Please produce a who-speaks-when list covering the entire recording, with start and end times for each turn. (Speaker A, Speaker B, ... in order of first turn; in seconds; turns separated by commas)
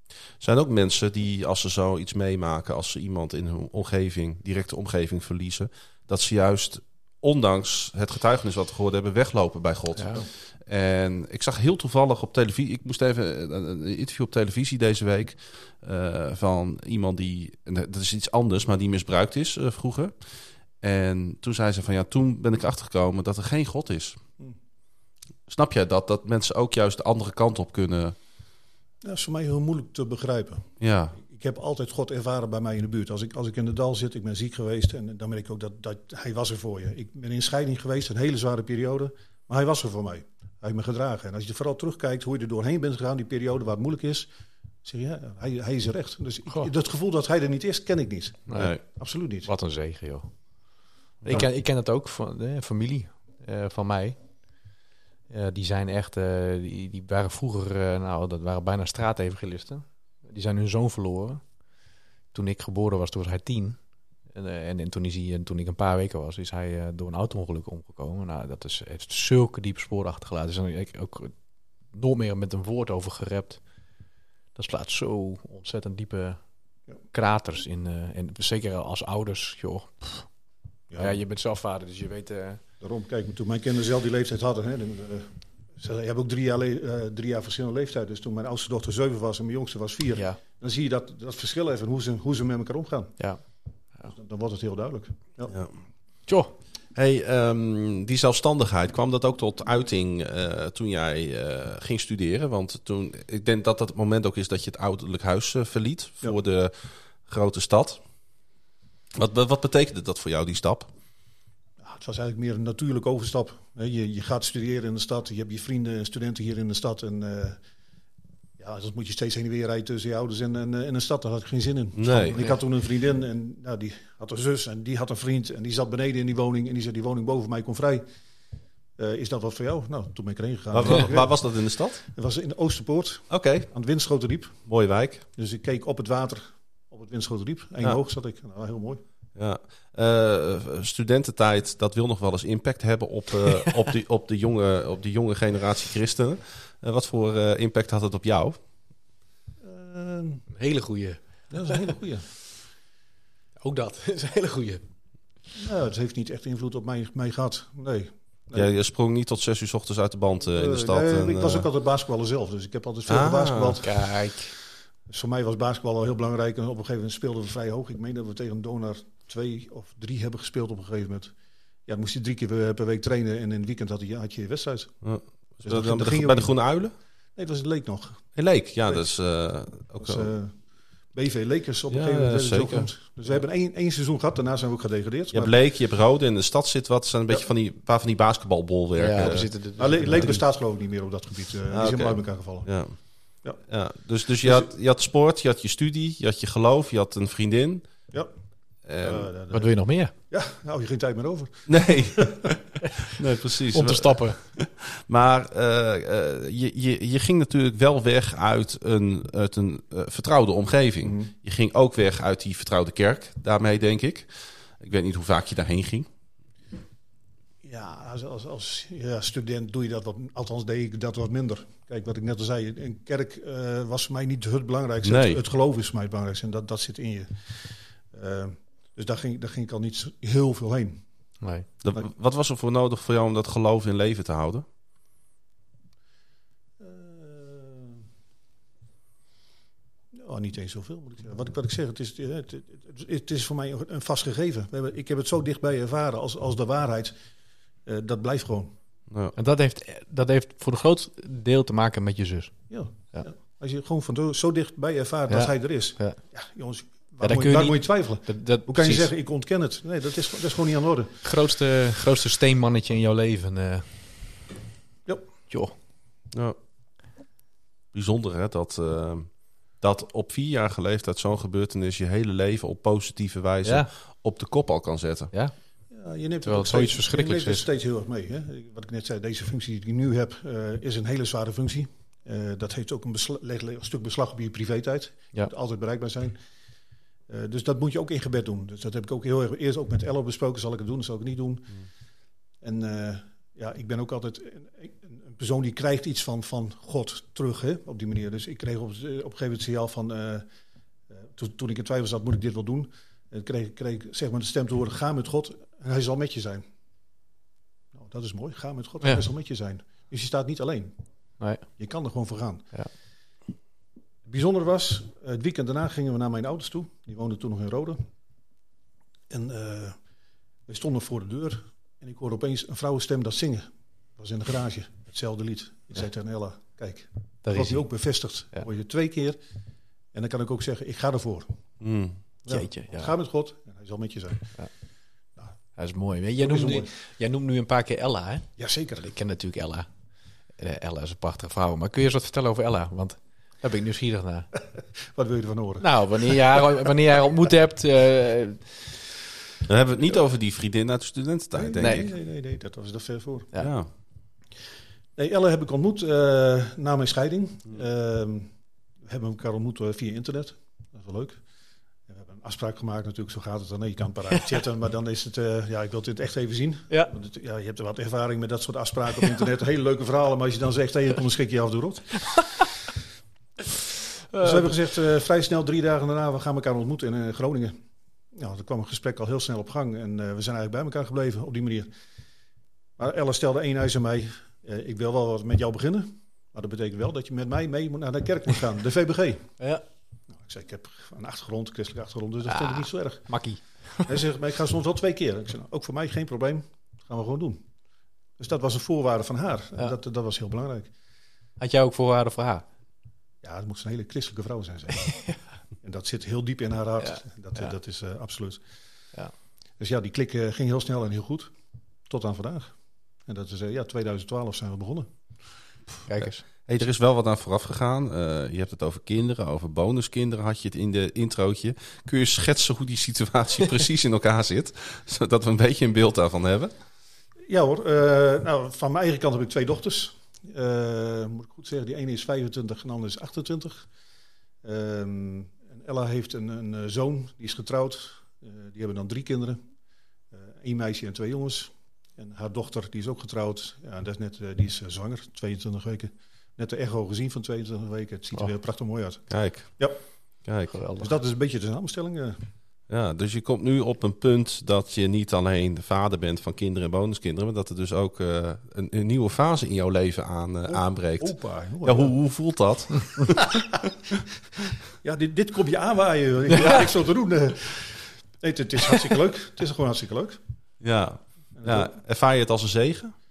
Speaker A: 0.4-20.1, Speaker B: 10.0-10.2, Speaker A: 20.8-24.2, Speaker A: 25.5-28.1, Speaker C: 29.0-44.3, Speaker A: 30.8-31.2, Speaker C: 44.8-49.5, Speaker B: 48.5-48.8, Speaker A: 48.5-48.8, Speaker B: 49.4-50.3, Speaker B: 51.2-54.2, Speaker B: 55.3-61.4, Speaker B: 62.3-63.8, Speaker B: 64.3-71.3, Speaker B: 71.9-73.6, Speaker B: 74.5-76.4, Speaker B: 77.1-80.3, Speaker C: 80.9-81.2, Speaker B: 80.9-82.6, Speaker C: 82.8-93.2, Speaker C: 94.0-95.5, Speaker B: 96.3-96.5, Speaker A: 96.9-106.7, Speaker A: 107.2-108.0, Speaker A: 109.1-110.9, Speaker C: 111.8-117.6, Speaker C: 118.6-128.0, Speaker A: 122.0-122.4, Speaker C: 129.0-131.5, Speaker A: 130.7-132.0, Speaker C: 132.0-134.6, Speaker A: 133.3-133.7, Speaker A: 134.7-135.2, Speaker C: 135.3-139.0, Speaker A: 139.3-148.6, Speaker C: 149.6-150.4, Speaker B: 150.5-151.8, Speaker C: 151.5-152.2, Speaker B: 153.6-154.8, Speaker C: 155.6-158.7, Speaker A: 158.5-161.7, Speaker C: 160.4-164.0, Speaker A: 163.1-163.8, Speaker B: 163.8-164.5, Speaker C: 165.1-171.3, Speaker C: 171.9-174.9, Speaker A: 175.0-176.9, Speaker C: 175.6-176.5, Speaker C: 177.3-178.3, Speaker A: 178.3-180.3, Speaker C: 178.8-179.2, Speaker C: 180.0-180.5, Speaker C: 181.1-185.6, Speaker A: 181.9-182.9, Speaker A: 185.3-189.5, Speaker B: 189.0-190.4, Speaker C: 189.8-192.7, Speaker A: 191.7-192.9, Speaker A: 193.7-197.9, Speaker C: 194.4-194.7, Speaker A: 198.8-199.3, Speaker C: 199.0-199.7, Speaker B: 199.5-200.1, Speaker C: 200.3-202.6, Speaker A: 201.7-214.3, Speaker B: 203.7-204.4, Speaker C: 211.0-211.3, Speaker A: 214.8-216.1, Speaker C: 217.6-231.0, Speaker A: 225.0-225.4, Speaker A: 231.8-234.6, Speaker C: 236.8-238.0, Speaker C: 240.1-247.1, Speaker C: 247.8-248.7, Speaker A: 249.1-249.3, Speaker B: 249.3-252.5, Speaker C: 252.7-261.2, Speaker B: 255.3-256.2, Speaker B: 257.2-259.1, Speaker B: 261.2-263.9, Speaker A: 266.3-266.6, Speaker A: 267.9-275.3, Speaker C: 275.9-286.4, Speaker B: 276.4-277.7, Speaker C: 287.3-291.8, Speaker C: 292.6-300.4, Speaker C: 301.1-306.6, Speaker C: 307.9-310.9, Speaker C: 311.8-312.7, Speaker C: 314.3-318.0, Speaker C: 319.3-320.0, Speaker C: 320.7-329.4, Speaker B: 327.4-327.9, Speaker C: 330.1-331.5, Speaker A: 331.8-332.2, Speaker C: 332.4-334.6, Speaker B: 332.5-333.1, Speaker B: 335.8-338.4, Speaker C: 336.4-336.9, Speaker C: 338.6-339.1, Speaker B: 339.0-339.9, Speaker B: 340.6-344.5, Speaker C: 345.0-346.6, Speaker B: 345.8-348.8, Speaker A: 349.6-352.1, Speaker C: 351.5-353.5, Speaker B: 351.8-352.1, Speaker A: 353.6-353.9, Speaker C: 355.1-358.5, Speaker C: 359.0-361.4, Speaker C: 362.1-372.3, Speaker B: 374.3-374.7, Speaker C: 374.4-377.8, Speaker C: 378.3-381.9, Speaker C: 383.0-389.5, Speaker C: 390.3-393.3, Speaker B: 392.4-394.1, Speaker C: 394.0-397.6, Speaker C: 398.4-400.9, Speaker B: 401.6-402.6, Speaker C: 403.4-405.3, Speaker C: 405.8-408.6, Speaker B: 407.0-407.7, Speaker C: 409.8-411.5, Speaker C: 412.1-412.7, Speaker C: 413.3-415.1, Speaker B: 416.1-416.4, Speaker A: 416.6-426.7, Speaker C: 427.5-433.9, Speaker C: 434.6-439.6, Speaker C: 440.3-450.0, Speaker A: 449.3-449.7, Speaker A: 450.4-450.7, Speaker B: 450.7-451.1, Speaker C: 451.0-452.4, Speaker A: 452.9-463.7, Speaker C: 460.7-462.2, Speaker C: 465.0-470.4, Speaker A: 470.8-473.1, Speaker C: 471.6-471.9